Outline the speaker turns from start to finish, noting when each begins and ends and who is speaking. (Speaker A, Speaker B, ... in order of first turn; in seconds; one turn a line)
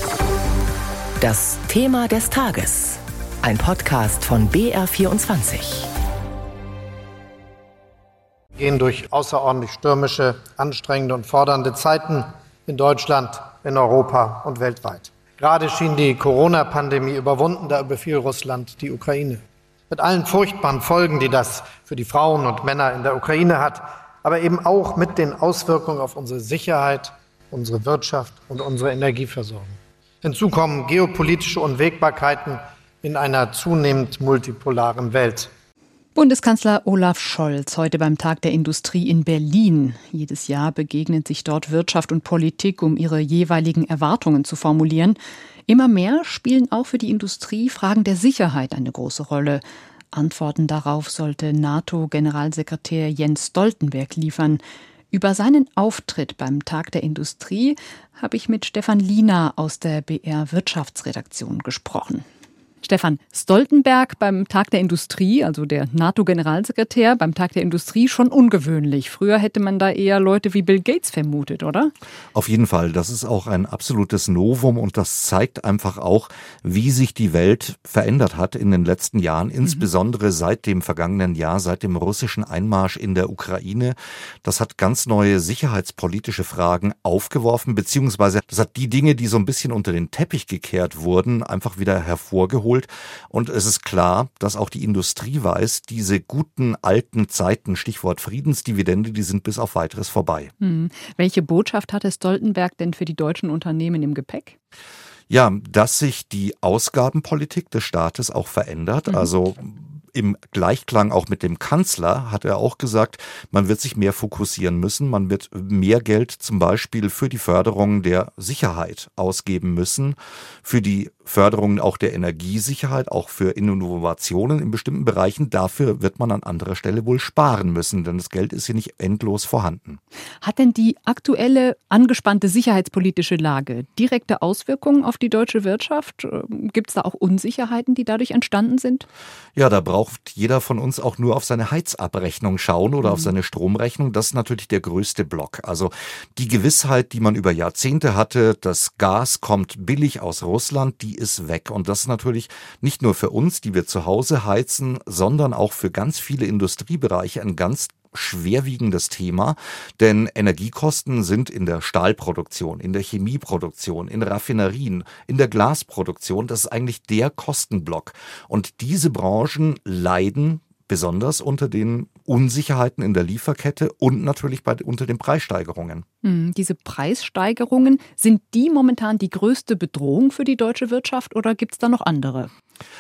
Speaker A: 1.2-5.9
Speaker B: 8.6-35.5
Speaker C: 36.1-49.6
Speaker C: 50.1-62.3
Speaker C: 62.8-71.9
Speaker D: 72.3-100.5
Speaker C: 100.6-104.6
Speaker D: 105.3-130.0
Speaker C: 130.4-139.1
Speaker D: 139.6-176.1
Speaker C: 143.0-143.3
Speaker C: 176.2-182.5